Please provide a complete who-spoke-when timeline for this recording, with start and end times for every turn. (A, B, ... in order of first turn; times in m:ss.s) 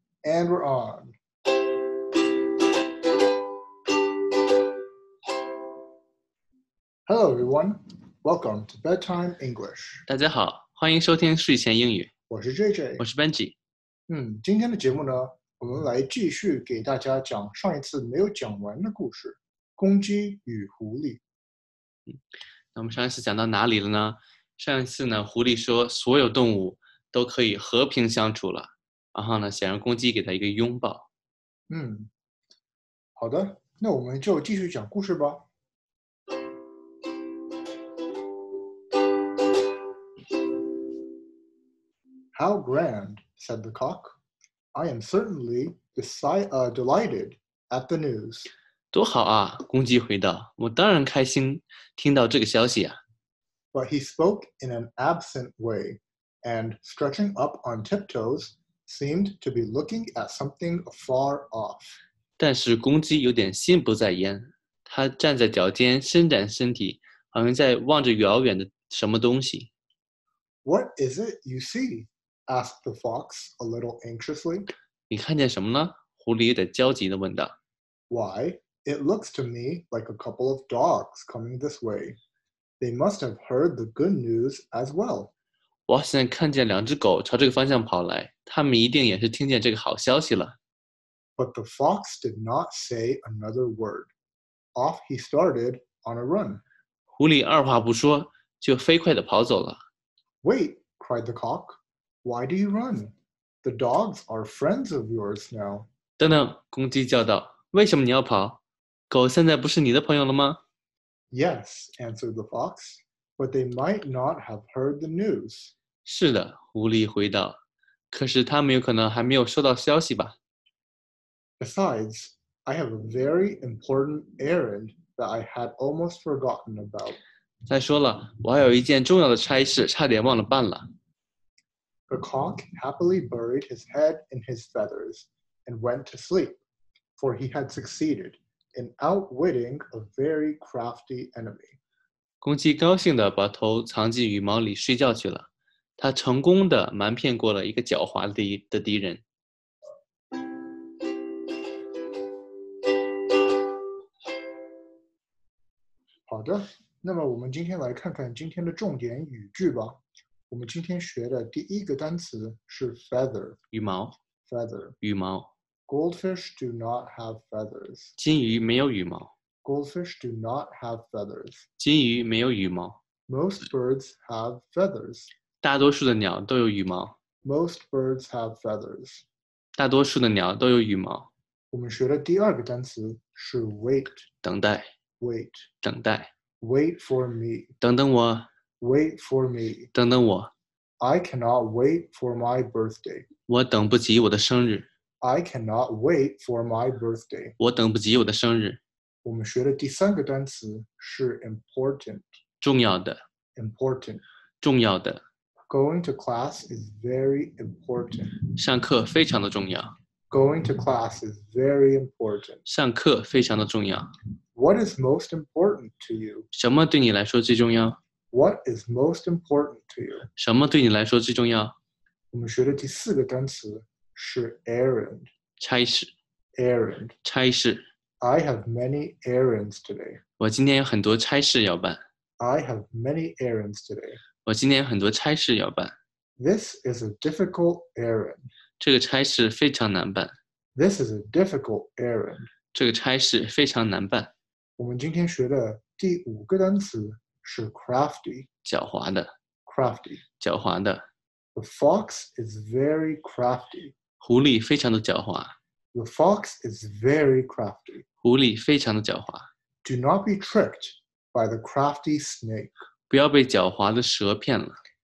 0:00.2-0:01.1 A
0:07.1-0:10.0 A
0:10.1-0:12.1 B
0:12.3-0:13.0 A
0:13.0-0:13.5 B
0:14.1-0:21.2 A
0:22.7-0:31.1 B
0:31.7-0:32.1 A
0:33.2-0:35.4 A
0:42.3-0:44.1 A
0:44.7-0:48.5 A
0:48.9-0:53.0 B
0:53.7-1:02.0 A
1:02.4-1:09.7 B
1:10.6-1:14.7 A
1:15.1-1:17.5 B
1:18.1-1:22.2 A
1:22.8-1:25.3 A
1:25.9-1:30.5 B
1:31.4-1:34.1 A
1:34.8-1:36.6 A
1:37.1-1:39.8 B
1:40.4-1:45.9 A
1:46.2-1:50.6 B
1:51.3-1:55.7 A
1:56.0-1:57.6 B
1:58.1-2:00.4 B
2:01.6-2:07.2 A
2:07.7-2:10.8 B
2:12.1-2:16.6 A
2:17.2-2:21.8 A
2:22.4-2:29.2 B
2:36.3-2:43.6 A
2:43.7-2:44.2 B
2:44.4-2:45.0 A
2:45.0-2:45.5 B
2:45.9-2:48.1 A
2:48.2-2:49.3 B
2:49.6-2:51.7 A
2:51.8-2:53.0 B
2:53.3-2:55.3 A
2:55.6-2:57.1 B
2:57.4-2:59.2 A
2:59.8-3:01.3 B
3:01.7-3:04.2 A
3:04.4-3:04.8 B
3:05.2-3:05.7 A
3:05.8-3:06.3 B
3:06.6-3:07.7 A
3:07.8-3:08.5 B
3:08.8-3:09.9 A
3:09.9-3:10.5 B
3:11.0-3:13.3 A
3:13.5-3:14.8 B
3:15.2-3:17.6 A
3:17.6-3:18.8 B
3:19.2-3:22.2 A
3:22.6-3:23.2 B
3:23.6-3:24.2 A
3:24.6-3:25.2 B
3:25.7-3:28.3 A
3:28.5-3:29.9 B
3:30.3-3:32.6 A
3:32.6-3:34.1 B
3:34.6-3:36.5 A
3:36.5-3:38.0 B
3:38.3-3:40.3 A
3:40.4-3:41.7 B
3:42.3-3:45.3 A
3:45.6-3:46.1 B
3:46.6-3:47.2 A
3:47.2-3:47.8 B
3:48.2-3:50.2 A
3:50.4-3:52.0 B
3:52.4-3:54.2 A
3:54.4-3:55.9 B
3:56.4-3:58.5 A
3:58.8-4:00.3 B
4:00.8-4:02.5 A
4:02.7-4:04.3 B
4:04.8-4:08.5 A
4:08.6-4:09.3 B
4:09.6-4:10.2 A
4:10.4-4:11.0 B
4:11.6-4:13.9 A
4:14.2-4:15.5 B
4:15.9-4:18.0 A
4:18.2-4:19.4 B
4:19.8-4:22.7 A
4:23.1-4:24.8 B